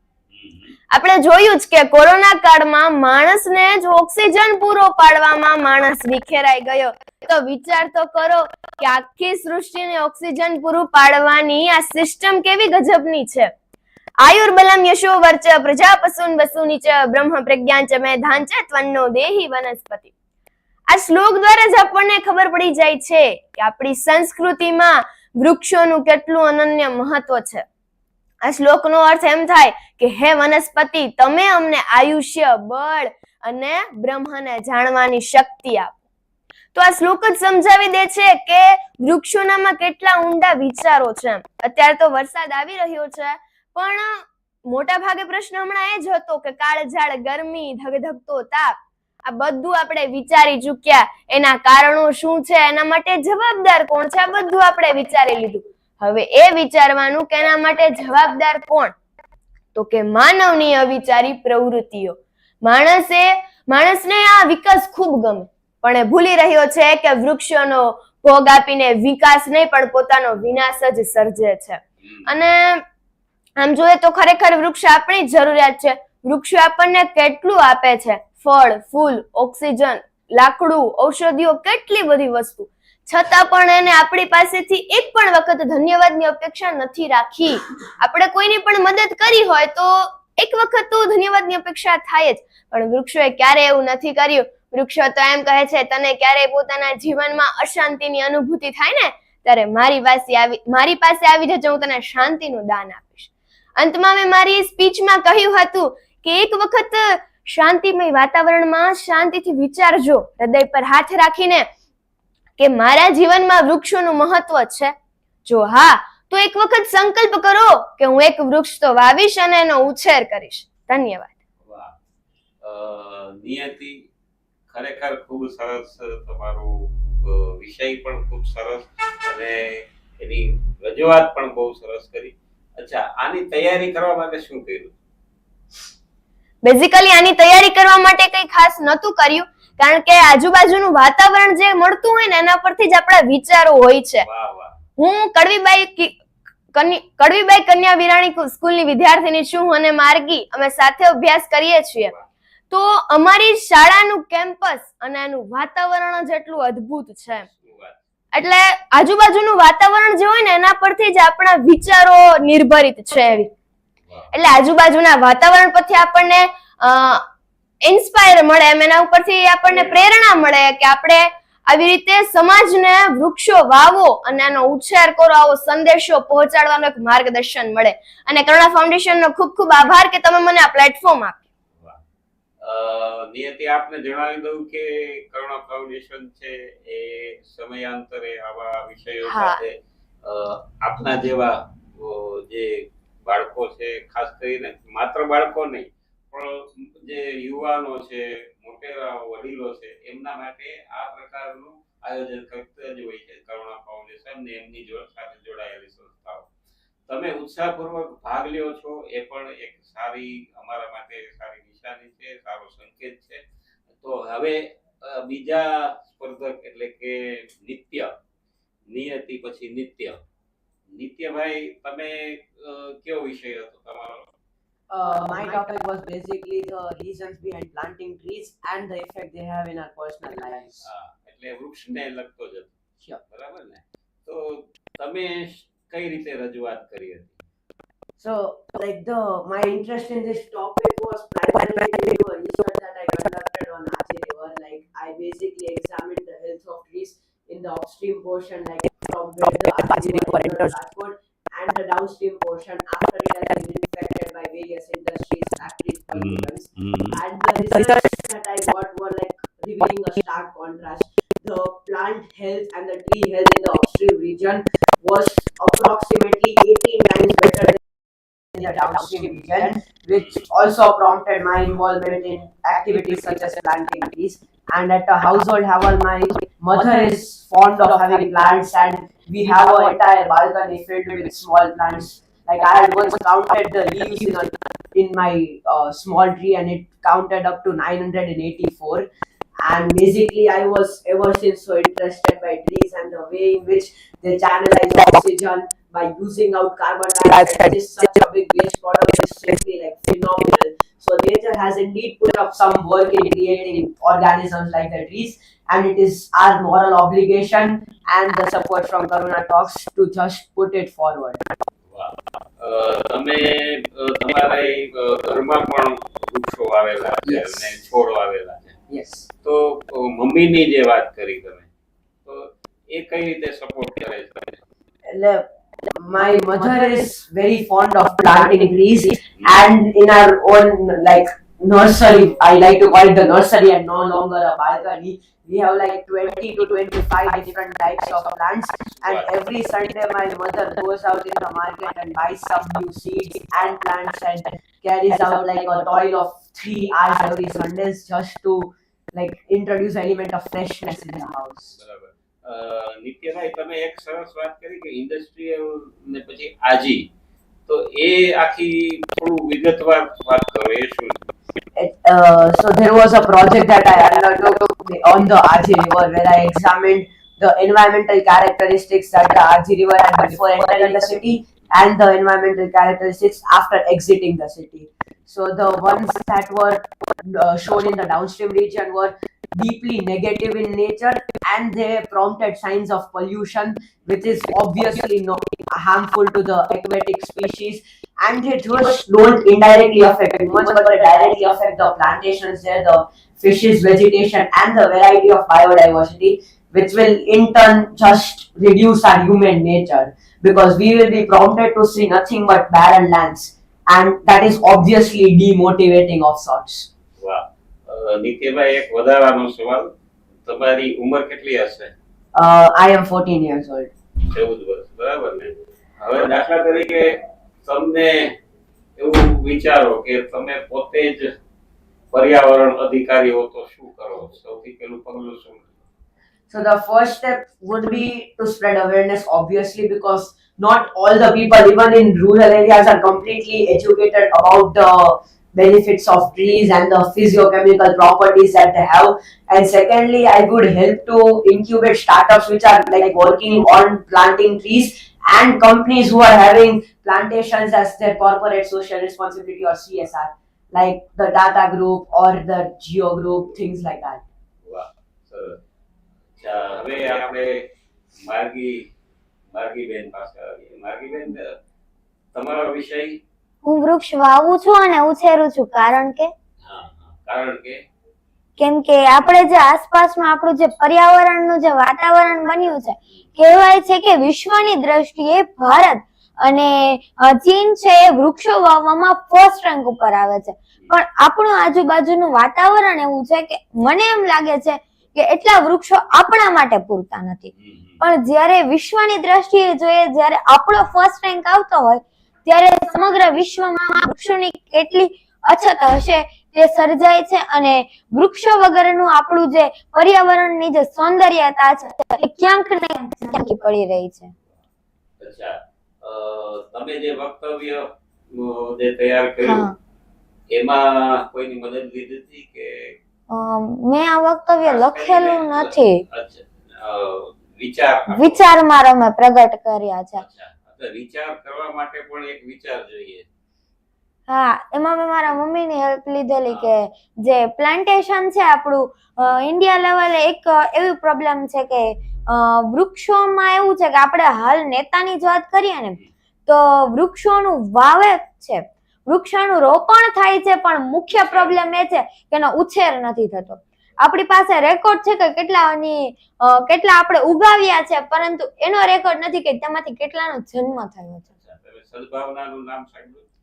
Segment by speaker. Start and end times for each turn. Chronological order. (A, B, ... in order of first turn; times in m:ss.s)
0:00.3-0:00.8 A
0:00.9-0:13.5 B
0:14.2-0:20.1 B
0:20.9-0:27.6 B
0:28.4-0:35.9 B
0:36.8-0:58.9 B
0:59.8-1:12.8 B
1:12.0-1:12.4 A
1:13.6-1:51.7 B
1:52.6-1:54.9 B
1:55.4-2:01.3 B
2:01.6-2:01.9 A
2:02.6-2:04.1 A
2:04.7-2:06.7 A
2:07.2-2:15.0 A
2:16.6-2:24.2 B
2:24.2-2:24.8 A
2:25.0-2:26.2 B
2:26.7-2:32.1 B
2:32.0-2:32.2 A
2:32.7-2:37.5 B
2:37.3-2:38.0 A
2:38.3-2:43.5 B
2:44.1-2:44.3 A
2:44.3-2:47.2 B
2:47.8-3:01.4 B
2:49.7-2:50.0 A
3:02.6-3:26.5 A
3:09.2-3:09.6 B
3:27.1-3:38.1 A
3:38.9-3:40.2 A
3:40.9-3:44.3 A
3:44.9-3:50.9 C
3:50.8-3:52.7 A
3:53.3-3:57.4 A
3:58.2-4:27.8 C
4:16.1-4:17.2 A
4:28.5-4:49.1 C
4:30.1-4:30.5 A
4:49.6-5:11.4 C
5:11.9-5:18.8 A
5:17.2-5:17.7 C
5:18.9-5:19.3 C
5:19.4-5:21.7 A
5:22.2-5:24.6 A
5:25.1-5:51.8 C
5:29.4-5:29.6 A
5:38.9-5:39.2 A
5:51.8-5:57.1 A
5:57.7-6:01.2 A
6:01.8-6:46.9 C
6:47.2-6:52.0 A
6:52.3-6:53.9 C
6:54.2-6:58.4 A
6:59.0-7:01.3 A
7:02.1-7:05.7 A
7:06.5-7:34.2 C
7:34.6-7:35.6 A
7:36.4-7:37.7 A
7:38.2-7:38.9 A
7:39.5-7:41.6 A
7:42.3-7:43.2 A
7:43.6-7:46.3 D
7:46.6-7:47.8 A
7:48.6-8:24.3 D
8:07.5-8:08.0 A
8:25.2-8:29.7 A
8:29.4-8:29.7 D
8:30.5-8:33.0 A
8:33.3-8:36.0 D
8:34.6-8:38.5 A
8:38.1-8:40.2 D
8:40.1-8:43.3 A
8:44.3-9:11.3 D
8:46.5-8:46.7 A
9:01.1-9:01.6 A
9:11.3-9:13.3 A